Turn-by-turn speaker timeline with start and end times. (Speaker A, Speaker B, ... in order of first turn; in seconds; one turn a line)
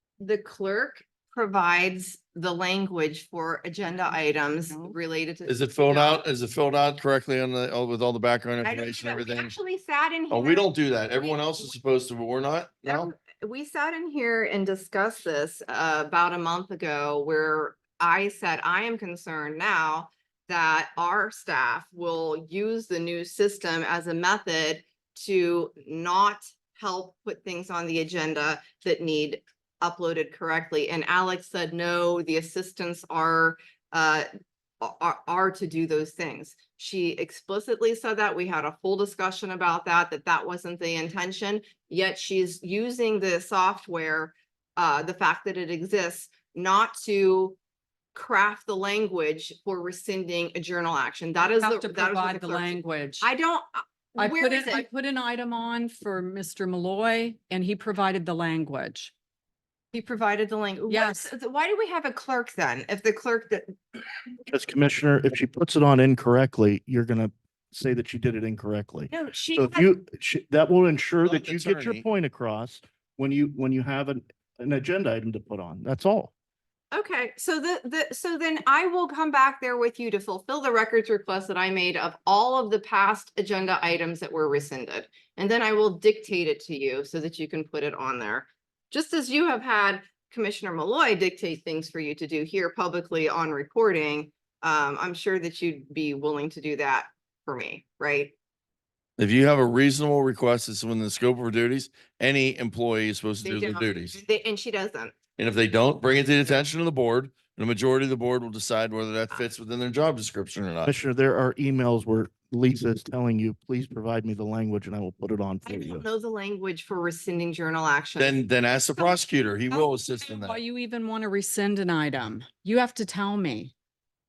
Speaker A: 0.2-6.2
Speaker B: 4.1-5.0
Speaker C: 5.5-9.6
Speaker A: 8.6-11.7
Speaker C: 10.3-13.1
Speaker A: 12.8-34.3
Speaker A: 34.8-47.6
Speaker A: 48.1-54.8
Speaker B: 51.4-53.2
Speaker B: 54.2-59.1
Speaker A: 59.9-63.8
Speaker B: 60.9-61.3
Speaker D: 64.5-76.3
Speaker A: 69.1-69.9
Speaker C: 71.2-72.0
Speaker A: 76.9-98.3
Speaker C: 99.2-104.2
Speaker A: 103.4-105.1
Speaker C: 105.4-110.9
Speaker D: 110.8-116.0
Speaker A: 115.7-118.4
Speaker C: 118.2-120.6
Speaker A: 119.0-119.9
Speaker B: 120.2-123.7